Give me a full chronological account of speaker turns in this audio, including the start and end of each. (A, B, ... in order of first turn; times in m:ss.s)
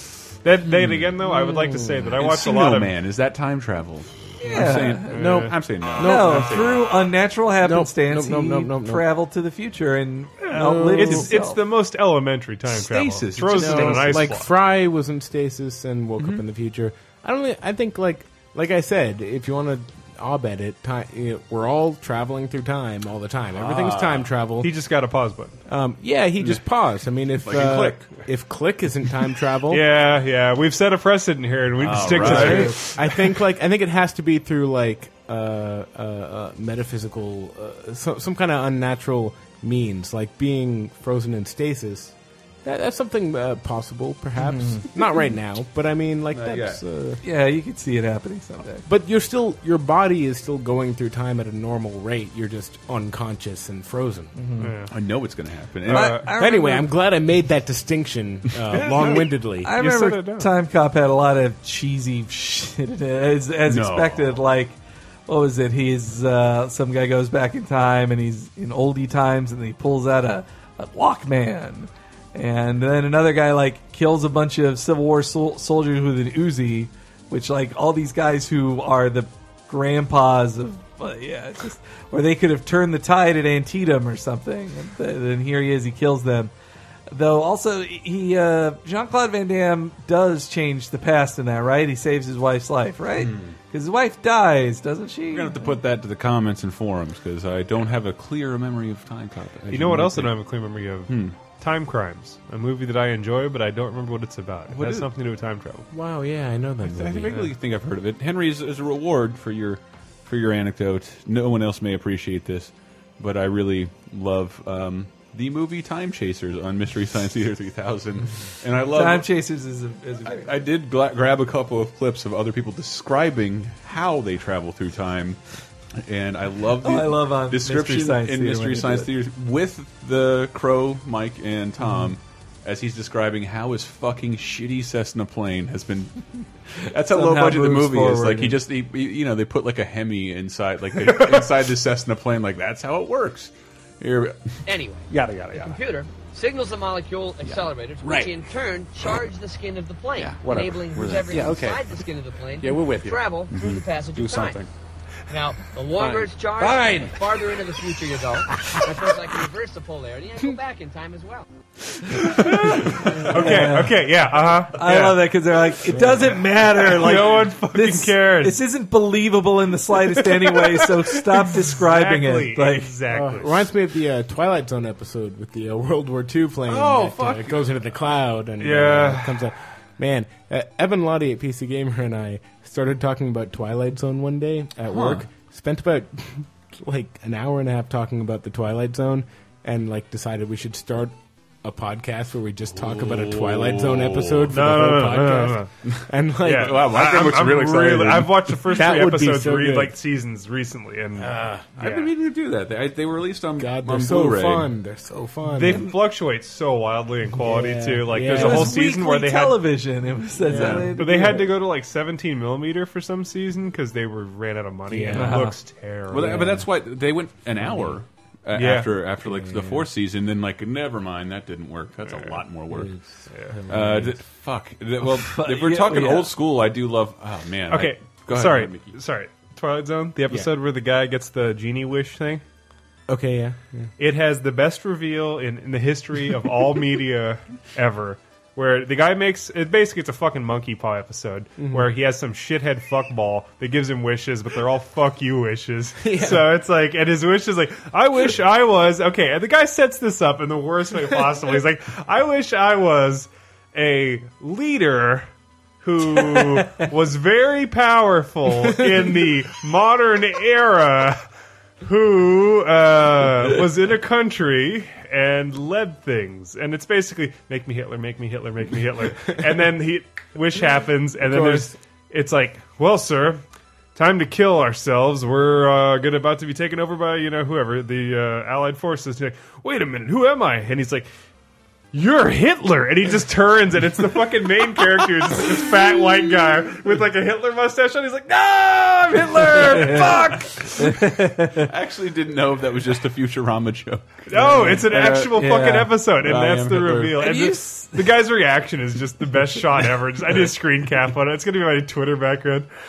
0:00.4-0:02.9 A
0:01.2-0:02.2 B
0:02.2-0:06.8 C
0:04.4-0:05.2 D
0:05.1-0:05.6 A
0:05.1-0:06.6 B
0:06.0-0:11.6 D
0:06.3-0:06.8 A
0:07.6-0:09.0 B
0:10.5-0:11.3 B
0:10.9-0:14.5 A
0:12.7-0:14.4 C
0:13.5-0:24.7 B
0:16.2-0:16.4 C
0:23.6-0:24.3 C
0:24.6-0:25.6 A
0:25.7-0:29.8 B
0:27.4-0:28.1 C
0:29.7-0:33.1 A
0:31.8-0:32.9 C
0:32.1-0:47.2 B
0:32.4-0:32.7 D
0:44.5-0:44.8 D
0:46.3-0:46.8 C
0:47.2-0:48.8 D
0:48.9-0:54.4 B
0:54.4-0:54.7 D
0:54.6-0:54.9 A
0:54.9-0:56.2 C
0:55.9-0:56.3 A
0:55.9-0:56.9 D
0:56.4-0:59.7 B
0:58.8-1:00.5 A
0:59.6-1:26.5 D
1:03.7-1:04.3 C
1:27.1-1:35.7 D
1:33.2-1:33.6 C
1:35.3-1:40.3 C
1:39.7-1:45.9 A
1:41.1-1:41.4 C
1:44.7-1:45.1 C
1:45.9-1:47.5 B
1:46.9-1:59.3 C
1:58.9-2:00.5 D
2:00.3-2:05.4 C
2:06.0-2:24.6 C
2:06.8-2:09.1 D
2:17.1-2:18.6 D
2:24.7-2:34.6 E
2:25.1-2:25.5 B
2:27.5-2:28.3 C
2:30.2-2:31.6 C
2:30.4-2:31.8 B
2:32.6-2:33.6 B
2:33.5-2:34.7 C
2:34.2-2:34.6 B
2:35.3-2:41.5 E
2:36.0-2:37.0 B
2:36.6-2:37.1 C
2:42.2-2:45.2 A
2:43.3-2:44.1 D
2:44.7-2:53.0 D
2:46.0-2:46.3 B
2:46.8-2:48.6 A
2:50.2-2:53.6 A
2:53.1-3:16.8 B
2:56.7-2:57.7 C
2:58.6-2:59.4 A
3:04.9-3:05.3 C
3:12.8-3:14.6 C
3:14.5-3:15.7 A
3:15.8-3:18.6 C
3:16.4-3:22.1 A
3:18.7-3:20.0 B
3:21.2-3:21.6 B
3:21.8-3:24.7 C
3:23.6-3:25.9 B
3:25.6-3:29.6 A
3:25.6-3:25.9 D
3:27.4-3:28.8 B
3:28.2-3:31.5 D
3:30.5-3:30.9 B
3:30.5-3:30.9 C
3:31.0-3:36.6 A
3:34.9-3:35.5 B
3:35.1-3:35.6 D
3:36.1-3:42.9 C
3:36.2-3:36.7 B
3:37.6-3:38.0 B
3:38.6-3:38.9 A
3:39.2-3:39.9 B
3:42.0-3:42.4 A
3:42.7-3:44.2 B
3:43.3-3:43.6 A
3:43.7-3:49.0 C
3:45.0-3:46.3 D
3:47.7-3:52.4 A
3:53.1-3:53.9 B
3:54.0-4:15.3 A
4:01.6-4:01.9 B
4:06.0-4:06.5 B
4:15.8-4:21.3 A
4:21.8-4:33.4 A
4:31.2-4:31.7 B
4:34.0-4:41.1 A
4:41.9-4:51.2 A
4:49.8-4:50.2 D
4:50.8-4:51.5 D
4:51.5-4:55.4 C
4:54.3-5:02.7 A
4:54.3-4:55.9 D
4:56.2-4:57.3 C
4:57.2-4:58.0 D